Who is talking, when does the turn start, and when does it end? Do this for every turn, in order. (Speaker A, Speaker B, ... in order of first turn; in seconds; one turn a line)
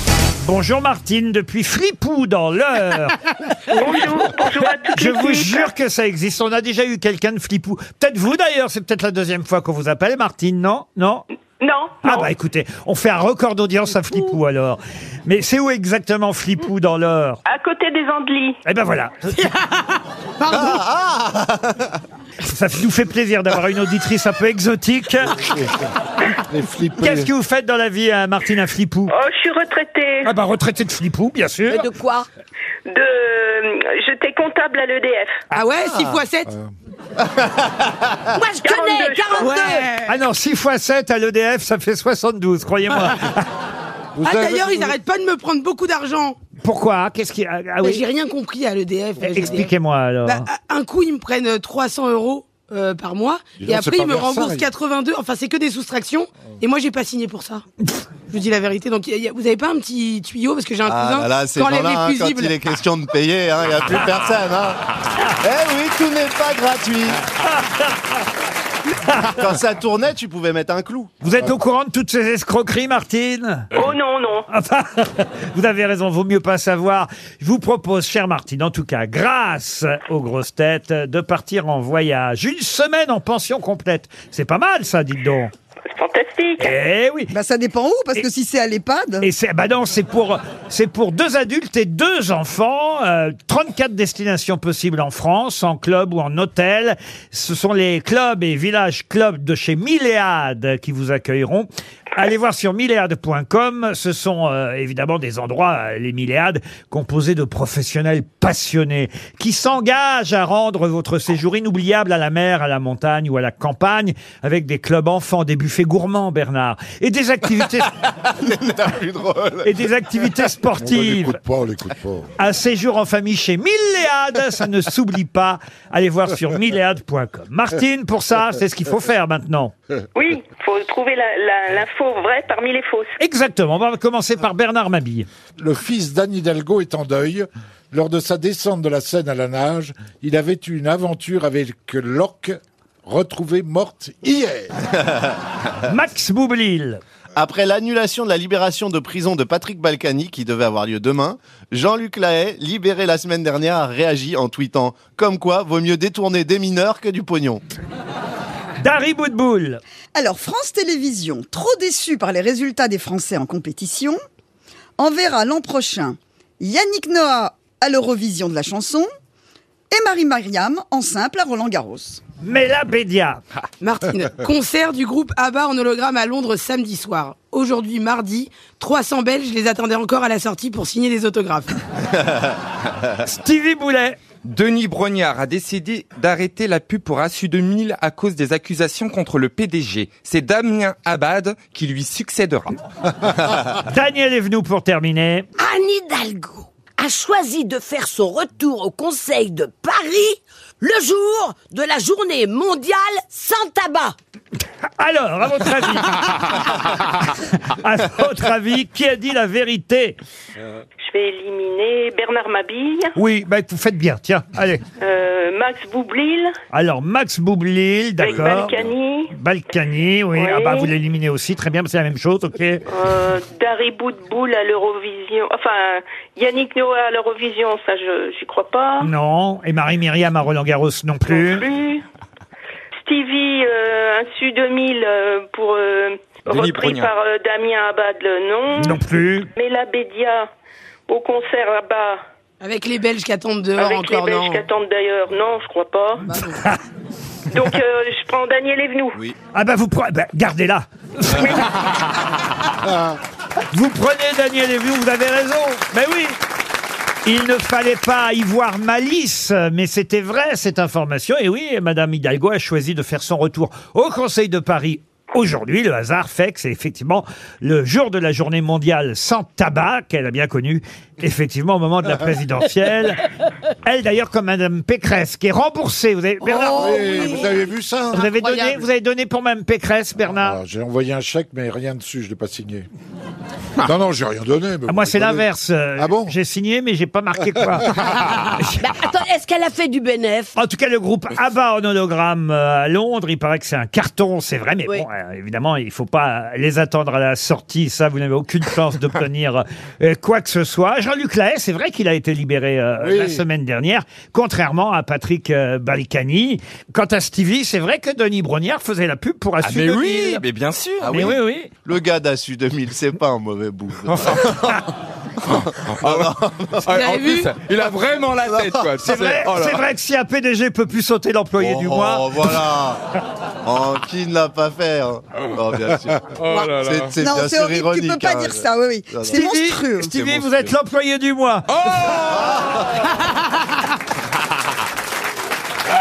Speaker A: 0.4-3.3
Speaker B: 3.7-5.7
Speaker A: 4.9-11.2
Speaker B: 11.6-12.3
Speaker A: 12.0-17.4
Speaker B: 17.5-18.6
Speaker A: 18.6-19.5
Speaker C: 19.6-20.6
Speaker D: 20.5-22.0
Speaker A: 22.4-25.4
Speaker E: 25.6-25.9
Speaker E: 26.5-27.3
Speaker A: 27.0-29.1
Speaker B: 29.1-30.3
Speaker A: 30.2-31.8
Speaker F: 31.7-32.3
Speaker B: 32.9-35.4
Speaker C: 35.5-36.5
Speaker D: 37.2-37.9
Speaker F: 38.3-39.9
Speaker B: 38.6-39.6
Speaker C: 39.4-40.1
Speaker A: 40.0-43.4
Speaker E: 44.1-44.9
Speaker C: 44.2-46.4
Speaker A: 46.6-48.0
Speaker C: 47.8-49.7
Speaker E: 49.2-49.6
Speaker A: 49.3-50.5
Speaker C: 50.2-57.6
Speaker E: 53.6-54.7
Speaker C: 58.3-62.5
Speaker D: 60.9-64.9
Speaker D: 65.4-67.2
Speaker A: 69.0-69.3
Speaker D: 69.2-71.1
Speaker A: 71.2-73.7
Speaker B: 73.7-74.4
Speaker A: 74.5-85.5
Speaker B: 85.9-86.7
Speaker A: 86.6-87.3
Speaker G: 87.3-89.3
Speaker A: 89.2-117.9
Speaker D: 118.1-119.8
Speaker A: 119.6-121.4
Speaker E: 120.8-122.3
Speaker A: 122.4-129.7
Speaker B: 130.1-133.2
Speaker A: 133.2-135.3
Speaker E: 135.6-144.8
Speaker A: 145.8-147.0
Speaker D: 147.3-157.6
Speaker A: 158.8-159.8
Speaker G: 160.1-164.2
Speaker G: 165.0-169.1
Speaker G: 169.9-172.2
Speaker A: 172.4-173.4
Speaker C: 173.8-181.8
Speaker A: 183.1-184.2
Speaker H: 184.4-192.8
Speaker A: 193.7-195.5
Speaker F: 195.6-204.1
Speaker A: 205.0-210.2
Speaker B: 211.0-213.1
Speaker A: 213.2-214.8
Speaker B: 215.0-216.5
Speaker A: 216.7-218.8
Speaker B: 218.2-219.3
Speaker A: 219.3-222.8
Speaker B: 220.3-220.9
Speaker B: 222.9-229.1
Speaker A: 229.0-231.7
Speaker B: 231.3-232.0
Speaker B: 233.0-239.0
Speaker H: 236.5-237.1
Speaker A: 238.8-239.5
Speaker B: 239.6-240.4
Speaker B: 241.1-242.2
Speaker C: 242.6-244.7
Speaker B: 243.8-246.3
Speaker C: 246.2-246.6
Speaker B: 247.5-249.2
Speaker A: 249.5-251.7
Speaker B: 251.3-251.6
Speaker A: 253.7-256.4
Speaker A: 257.2-273.2
Speaker A: 273.8-277.3
Speaker E: 276.4-278.3
Speaker A: 278.1-280.6
Speaker E: 280.3-282.9
Speaker E: 283.8-286.4
Speaker A: 284.9-287.9
Speaker F: 288.6-290.5
Speaker A: 290.6-310.4
Speaker E: 303.0-303.4
Speaker H: 309.6-311.3
Speaker D: 311.0-314.9
Speaker A: 311.1-311.7
Speaker D: 315.4-317.0
Speaker H: 315.9-319.8
Speaker C: 316.9-317.6
Speaker D: 318.4-319.4
Speaker A: 319.0-322.6
Speaker D: 321.6-323.0
Speaker D: 323.6-329.4
Speaker H: 326.4-327.2
Speaker C: 326.4-326.8
Speaker G: 327.2-330.1
Speaker A: 329.3-332.4
Speaker D: 332.2-333.1